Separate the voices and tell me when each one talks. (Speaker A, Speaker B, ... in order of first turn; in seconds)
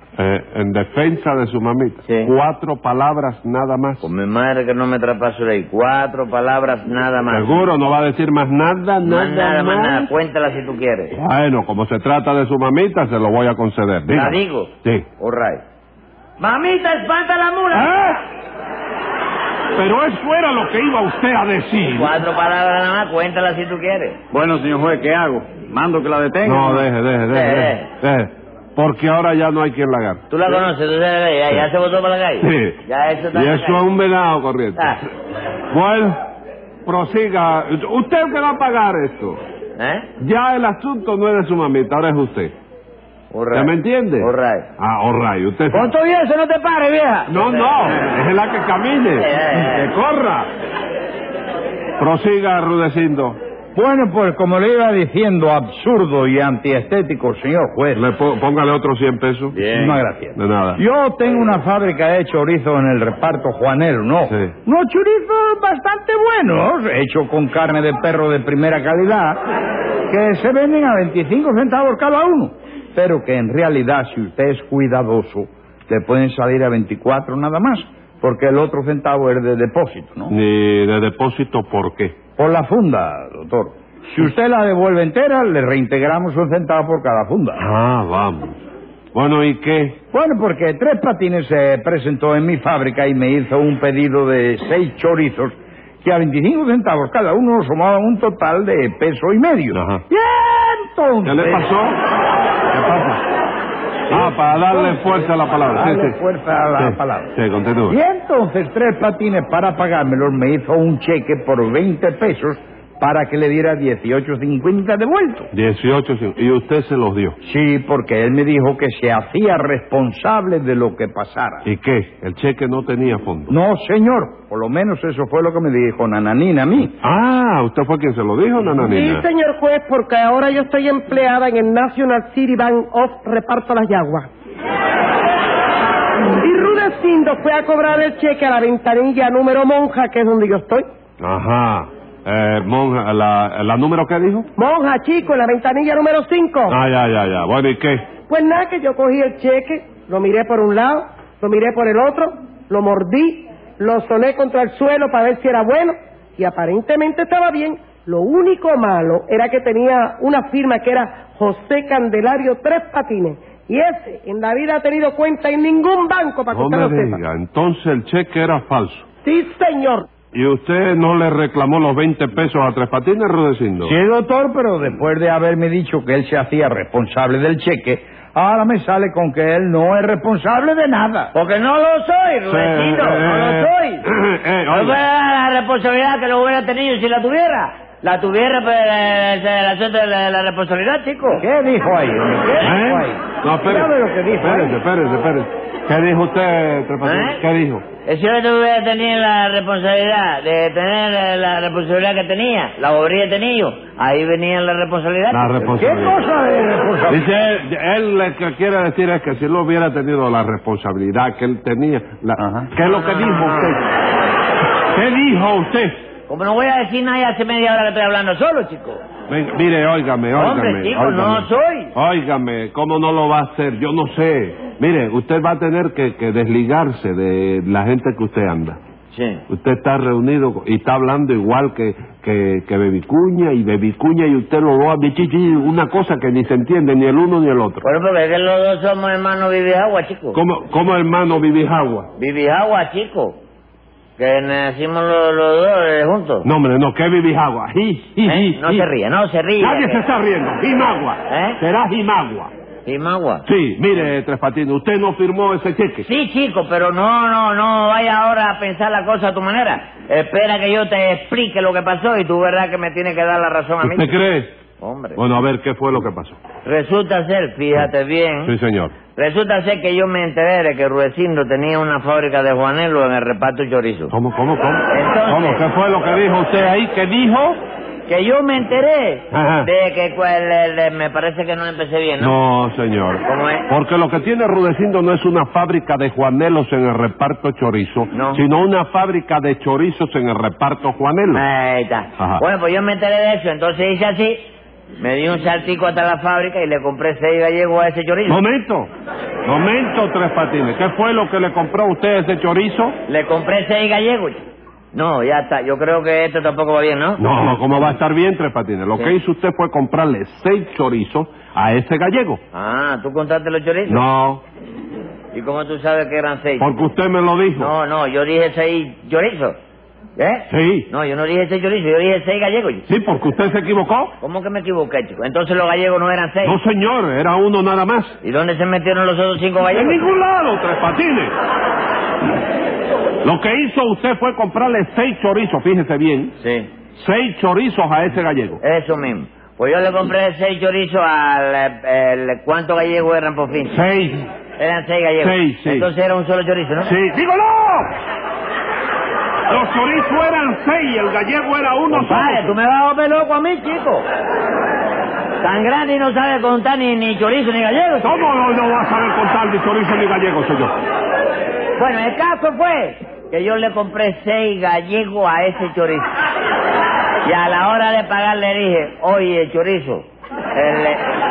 Speaker A: 0.2-4.1, 7.3-10.1, 11.1-15.1, 17.7-18.2, 19.8-22.2, 26.4-30.2, 32.4-32.8, 33.3-35.0, 35.7-36.2, 36.9-39.4, 40.2-42.5, 43.5-45.9, 47.3-50.5, 52.0-53.4, 57.9-59.6, 60.4-60.8, 80.3-82.2, 87.6-88.6, 89.1-90.0, 99.7-100.0, 101.2-102.0, 102.7-103.2, 104.1-106.2, 106.8-108.0, 115.5-117.4, 121.7-123.5, 127.0-129.3, 141.2-144.5, 146.7-148.1, 166.5-169.1, 170.3-173.9, 182.5-185.0, 192.6-197.8, 205.3-206.2, 207.1-213.8, 214.9-216.0, 219.3-228.8, 229.5-237.8, 240.3-242.1, 246.4-248.9, 249.6-252.5, 253.5-256.1, 263.8-264.6, 265.2-266.4, 268.4-268.9, 274.1-277.6, 279.3-279.7, 282.2-291.4, 292.2-292.4, 298.3-298.9, 299.5-303.0, 307.2-312.4, 313.9-314.4, 316.6-317.7, 320.5-320.9, 322.9-324.1, 326.4-328.2, 329.7-331.3, 333.2-336.4, 336.9-338.6, 343.7-344.3, 345.2-345.9, 346.8-347.9, 349.5-352.6, 358.0-360.7
Speaker B: 2.1-2.3, 4.0-7.7, 9.0-11.1, 14.1-15.6, 16.4-17.9, 21.9-24.2, 27.3-27.9, 30.3-33.8, 34.8-35.0, 39.8-40.1, 43.3-44.7, 45.7-48.0, 49.2-49.9, 181.3-184.0, 184.7-191.4, 192.4-192.7, 197.0-197.4, 198.1-205.7, 212.8-213.8, 216.3-219.0, 220.3-221.9, 229.1-229.4, 237.8-240.4, 242.2-243.4, 244.2-246.5, 248.2-250.0, 251.3-251.6, 252.8-253.4, 256.1-264.1, 264.8-265.2, 266.6-268.5, 269.1-274.1, 274.9-275.6, 278.1-282.4, 283.3-283.7, 288.1-288.4, 291.3-294.5, 295.0-298.4, 303.1-307.2, 312.5-314.0, 315.3-316.7, 317.6-319.6, 320.2-322.9, 324.2-326.6, 328.2-330.0, 336.4-336.7, 338.6-343.8, 344.6-346.9, 351.9-354.1, 355.4-358.3, 361.8-366.1, 367.2-371.1
Speaker C: 24.3-26.9, 59.5-60.0
Speaker D: 53.8-58.0, 59.7-69.4, 70.1-80.3, 82.4-87.6, 90.1-101.7, 104.1-105.1, 105.6-107.3, 107.9-115.5, 117.4-121.7, 123.5-126.9, 173.8-181.3, 191.4-194.8, 205.6-207.3, 212.4-212.7
Speaker E: 128.8-134.3, 136.3-140.9, 144.6-146.8, 148.3-167.2, 169.2-170.1